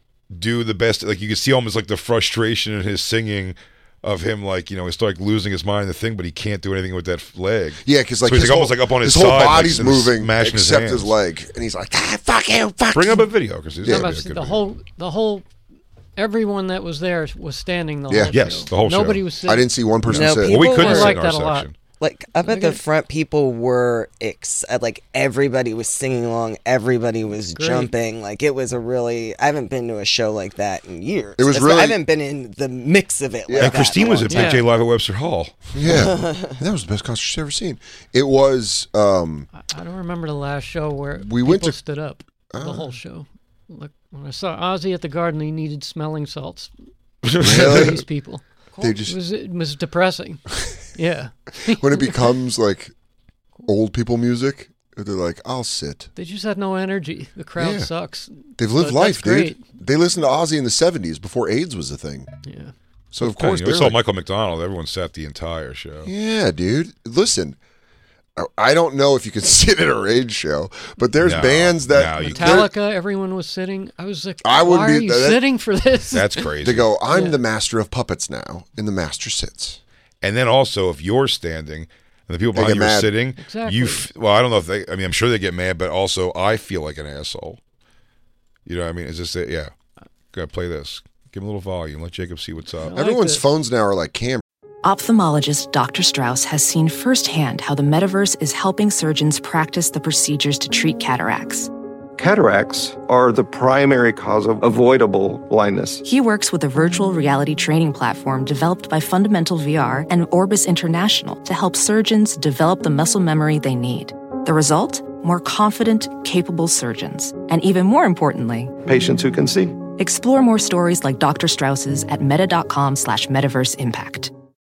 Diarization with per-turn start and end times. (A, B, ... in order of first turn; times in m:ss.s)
0:00.3-0:11.2 A
0:07.8-0:13.3 B
0:12.9-0:14.6 A
0:13.8-0:14.2 B
0:13.8-0:15.4 C
0:16.2-0:19.7 C
0:18.1-0:18.4 B
0:18.3-0:19.2 A
0:19.4-0:20.6 B
0:20.1-0:21.7 A
0:20.1-0:21.2 D
0:20.5-0:21.7 C
0:22.0-0:34.6 D
0:22.4-0:22.8 C
0:27.5-0:27.9 C
0:31.4-0:32.0 B
0:33.5-0:34.4 B
0:33.6-0:35.5 A
0:34.3-0:34.6 C
0:35.7-0:39.5 B
0:35.8-0:36.4 D
0:39.6-0:46.7 C
0:41.2-0:41.8 B
0:42.5-0:43.0 B
0:47.2-0:47.9 A
0:47.4-0:48.0 B
0:47.4-0:52.3 C
0:48.8-0:49.2 B
0:51.6-0:52.9 B
0:53.6-0:56.1 B
0:56.2-0:59.6 C
0:57.6-0:57.9 B
0:58.6-1:02.3 B
1:02.4-1:02.7 C
1:03.1-1:04.0 B
1:03.2-1:06.1 A
1:06.0-1:07.6 B
1:08.4-1:12.7 B
1:11.2-1:12.7 A
1:12.2-1:16.4 C
1:14.4-1:15.4 B
1:16.1-1:16.9 A
1:16.6-1:19.8 B
1:17.1-1:17.4 C
1:20.2-1:27.6 A
1:22.5-1:23.1 B
1:23.4-1:24.0 C
1:28.6-1:29.7 A
1:30.3-1:32.9 A
1:32.8-1:33.5 C
1:32.9-1:34.4 B
1:34.8-1:41.7 E
1:42.2-1:46.0 F
1:46.0-1:58.8 E
1:58.8-1:59.8 F
1:59.8-2:04.3 E